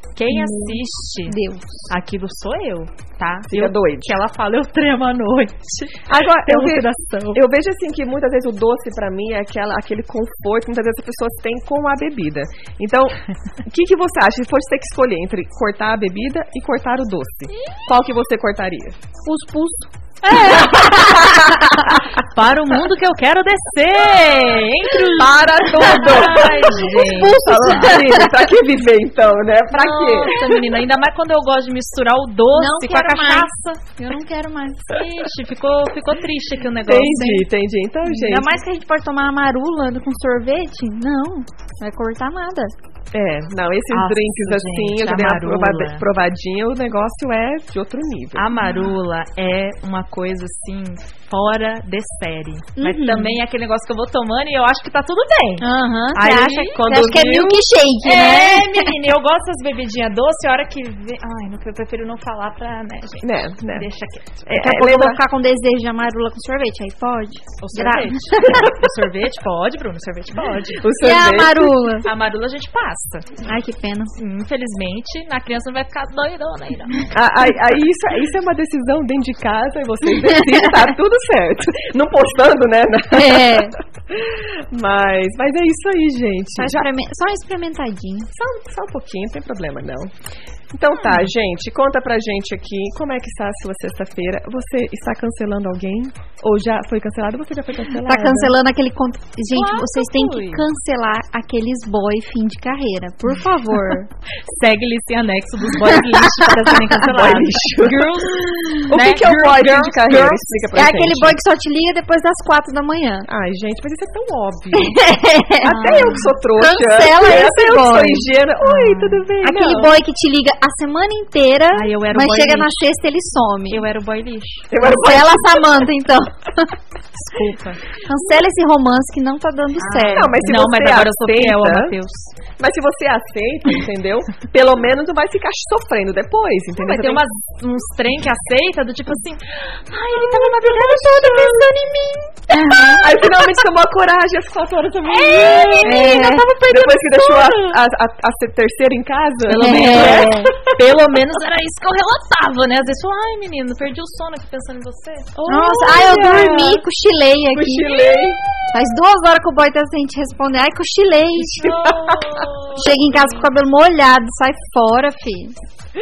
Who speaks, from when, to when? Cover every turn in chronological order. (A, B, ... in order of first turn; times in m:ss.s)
0:00.2-0:01.3 A
0:00.3-0:01.9 B
0:01.9-0:07.4 A
0:03.5-0:04.1 C
0:06.1-0:19.0 C
0:19.2-0:19.9 B
0:20.2-0:21.5 A
0:20.3-0:22.1 C
0:22.2-0:28.0 A
0:25.2-0:30.5 C
0:25.8-0:28.3 B
0:29.7-0:33.8 A
0:32.5-0:34.8 B
0:34.9-0:37.5 A
0:36.9-0:38.5 C
0:38.0-0:42.7 B
0:43.1-0:48.5 C
0:43.9-0:46.0 A
0:48.3-1:04.3 A
0:52.8-0:53.4 B
0:55.6-0:58.9 B
1:03.2-1:03.9 C
1:04.4-1:05.2 C
1:04.5-1:08.7 B
1:07.6-1:10.8 A
1:10.8-1:11.7 C
1:11.0-1:12.1 B
1:12.0-1:13.3 A
1:13.4-1:14.1 B
1:14.2-1:17.1 A
1:17.1-1:26.8 C
1:23.1-1:23.7 B
1:26.6-1:28.3 B
1:28.3-1:30.1 C
1:30.7-1:38.6 C
1:38.0-1:44.1 B
1:39.5-1:40.6 A
1:44.5-1:50.4 A
1:47.0-1:48.2 C
1:48.9-1:51.3 C
1:50.7-1:53.3 B
1:53.3-1:55.0 C
1:54.7-1:58.3 B
1:55.6-1:59.9 C
1:58.7-1:59.2 A
1:59.4-2:03.8 B
2:01.7-2:02.7 A
2:03.7-2:04.7 A
2:04.7-2:05.6 C
2:04.8-2:06.7 B
2:07.2-2:07.8 A
2:08.0-2:10.3 B
2:09.8-2:12.3 A
2:10.1-2:11.9 C
2:12.6-2:17.2 C
2:16.8-2:23.5 A
2:20.1-2:21.7 C
2:22.5-2:23.1 B
2:23.0-2:30.8 C
2:25.0-2:27.8 A
2:25.8-2:26.4 B
2:29.4-2:35.3 A
2:29.5-2:30.5 B
2:35.4-2:36.8 C
2:35.5-2:38.0 B
2:36.1-2:36.6 A
2:37.5-2:38.4 C
2:38.7-2:41.6 B
2:41.5-2:43.4 A
2:41.6-2:42.4 C
2:42.8-2:45.5 B